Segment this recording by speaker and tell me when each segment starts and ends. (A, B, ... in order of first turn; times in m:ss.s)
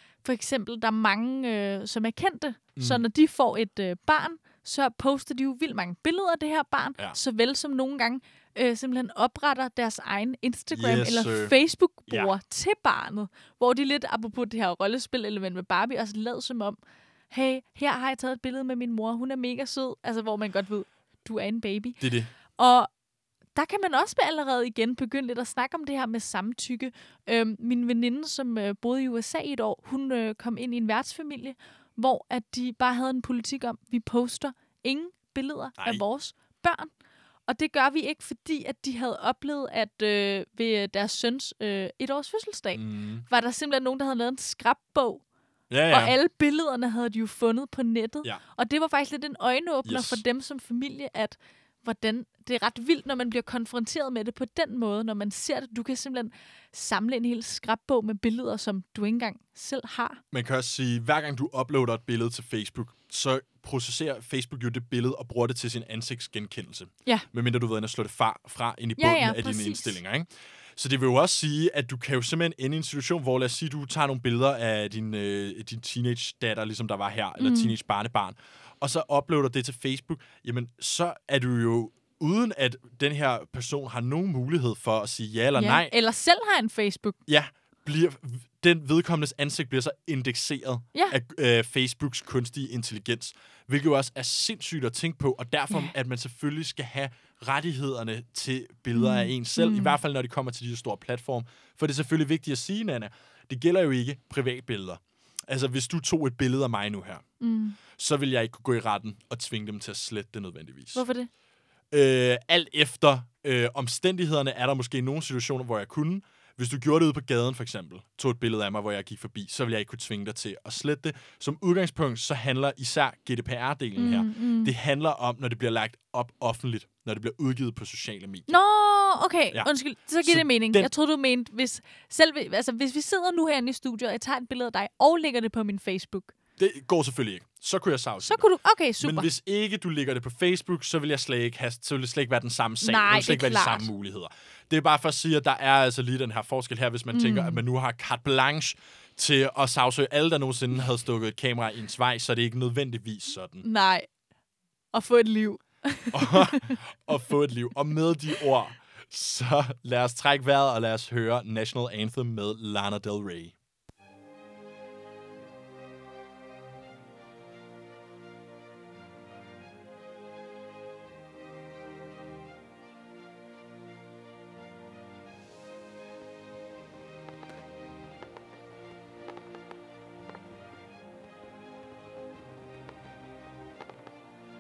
0:00.2-0:16.8 A
0:02.8-0:03.0 B
0:10.7-0:11.5 B
0:17.3-0:22.0 A
0:22.0-0:22.3 B
0:22.6-0:22.9 A
0:23.6-0:36.9 A
0:37.5-0:45.2 A
0:42.8-0:43.2 B
0:45.7-0:46.1 B
0:45.9-1:00.2 A
0:49.9-0:50.2 B
1:00.3-1:25.9 B
1:09.0-1:10.0 A
1:17.4-1:17.7 A
1:25.6-1:27.2 A
1:27.3-1:47.2 B
1:38.9-1:40.0 A
1:47.4-1:47.8 A
1:47.9-1:51.0 B
1:51.0-1:51.3 A
1:51.9-2:08.6 B
2:04.0-2:04.7 A
2:08.5-2:16.3 A
2:10.2-2:10.9 B
2:16.6-2:18.4 B
2:18.2-2:19.3 A
2:19.0-2:33.7 B
2:22.8-2:23.9 A
2:27.1-2:27.6 A
2:33.6-2:34.1 A
2:34.9-2:36.8 A
2:36.1-2:43.5 B